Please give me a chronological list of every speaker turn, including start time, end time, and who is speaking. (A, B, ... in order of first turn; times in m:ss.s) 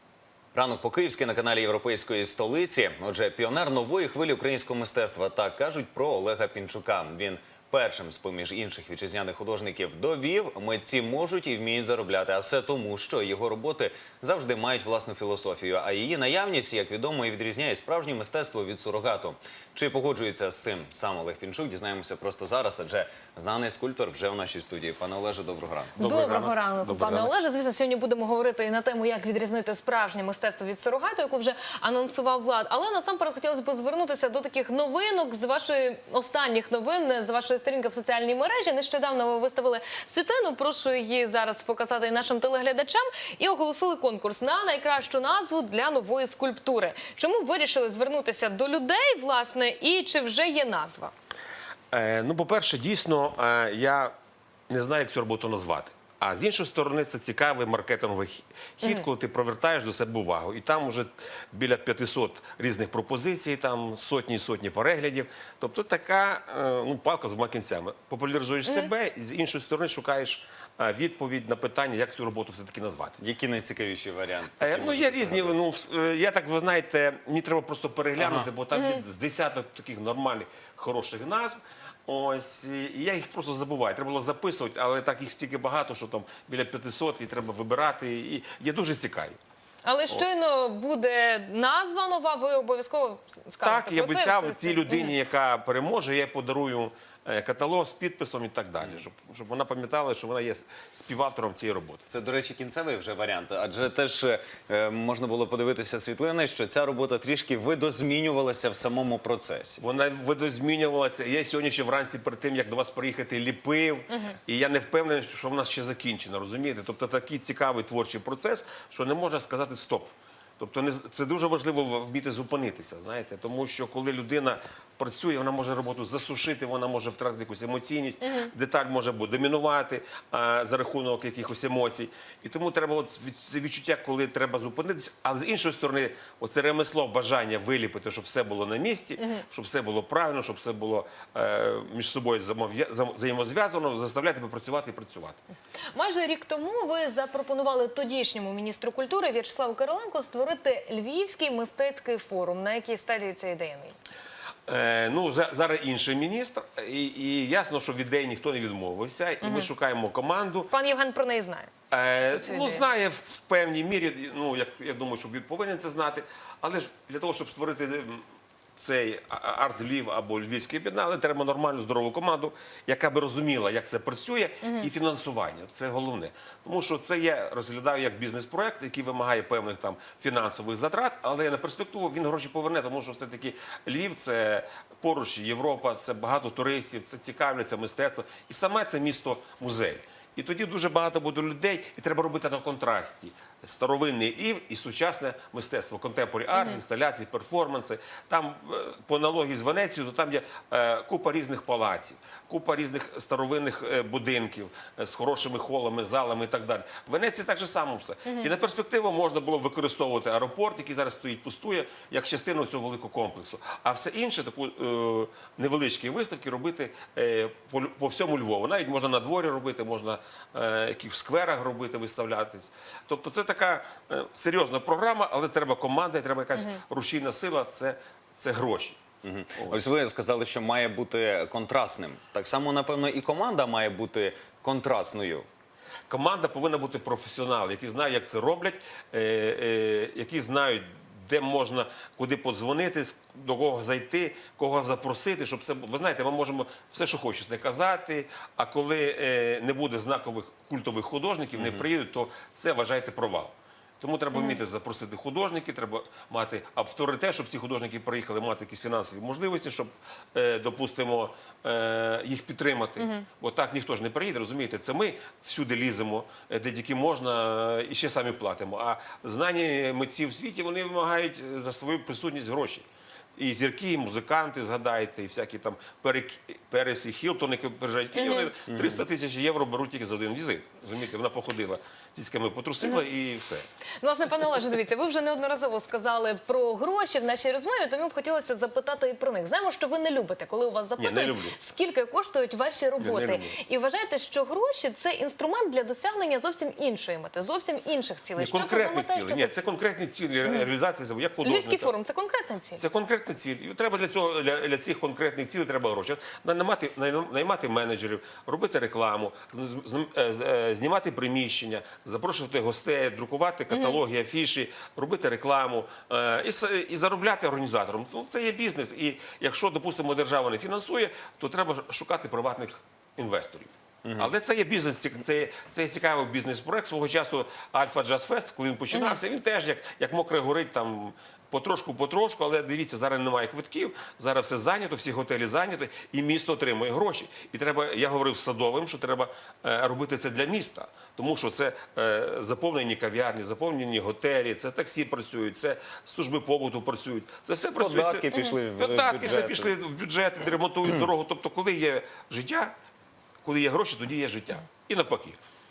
0:00.5-0:26.0 A
0:26.0-0:51.1 B
0:26.0-0:27.3 C
0:51.9-0:54.1 C
0:54.7-1:13.2 C
0:58.8-0:59.1 B
1:08.6-1:08.9 B
1:13.2-1:15.6 A
1:14.6-1:29.4 C
1:18.2-1:18.5 A
1:18.7-1:19.0 B
1:29.8-1:35.1 B
1:33.6-1:42.0 C
1:42.1-1:49.8 A
1:49.8-2:25.4 C
1:54.1-1:54.4 B
2:08.2-2:08.5 B
2:19.2-2:19.4 B
2:25.9-2:33.9 B
2:34.7-2:40.7 C
2:39.4-2:39.7 B
2:40.7-2:41.7 B
2:41.9-2:48.2 C
2:42.3-2:42.9 B
2:48.8-3:49.0 C
2:54.6-2:54.9 B
3:16.5-3:16.8 B
3:28.2-3:28.5 B
3:46.5-3:46.8 B
3:49.2-3:55.4 A
3:56.1-4:32.8 C
4:11.5-4:11.9 A
4:14.3-4:14.6 B
4:23.0-4:23.3 B
4:33.4-4:43.6 C
4:38.1-4:38.5 B
4:38.7-4:39.0 A
4:44.0-4:59.6 B
4:51.0-4:51.6 C
4:53.0-4:53.6 C
4:58.3-5:01.9 C
5:00.4-5:00.7 B
5:01.4-5:02.8 B
5:02.8-5:52.7 C
5:13.7-5:14.0 B
5:24.0-5:24.3 A
5:28.9-5:29.2 B
5:47.8-5:49.7 A
5:48.3-5:48.6 B
5:53.4-5:55.4 C